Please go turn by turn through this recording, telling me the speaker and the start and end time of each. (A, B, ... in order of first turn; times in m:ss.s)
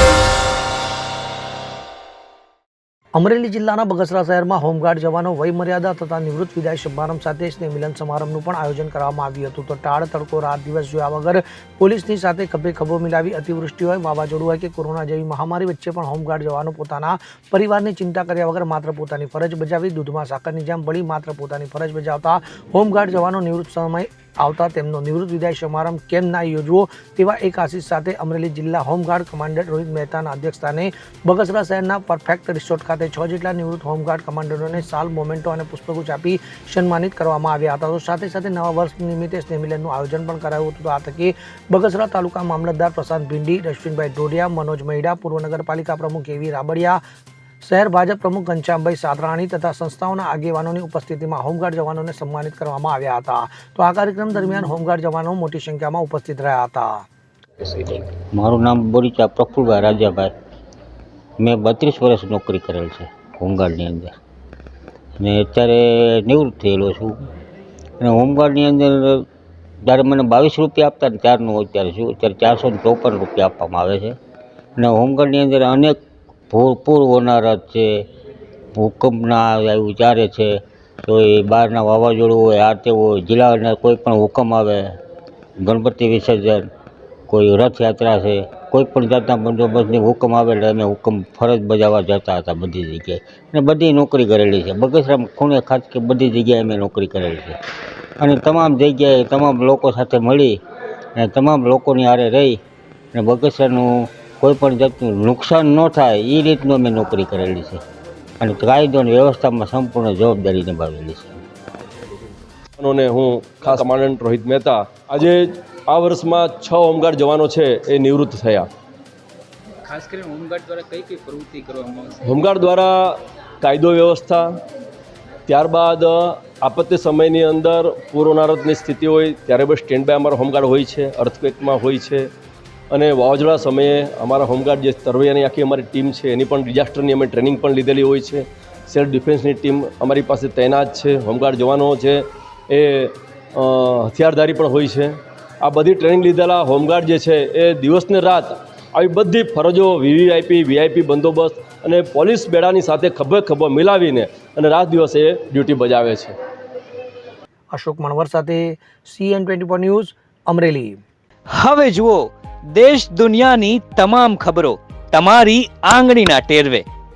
0:03.2-0:47.0 A
0:47.6-0:57.0 A
0:57.7-1:00.3 B
1:01.4-1:04.2 B
1:05.2-1:07.2 B
1:08.0-1:09.3 B
1:09.8-1:14.2 B
1:14.8-1:16.0 B
1:16.5-1:18.1 B
1:18.8-1:25.0 B
1:25.6-1:26.7 B
1:27.3-1:37.6 B
1:38.2-1:40.6 B
1:41.2-1:42.6 B
1:43.1-1:47.8 B
1:48.4-1:51.4 B
1:52.8-1:58.7 C
1:59.8-2:02.2 D
2:02.2-2:04.6 C
2:05.5-2:12.3 C
2:12.9-2:36.4 C
2:37.7-2:41.0 A
2:41.6-2:46.8 E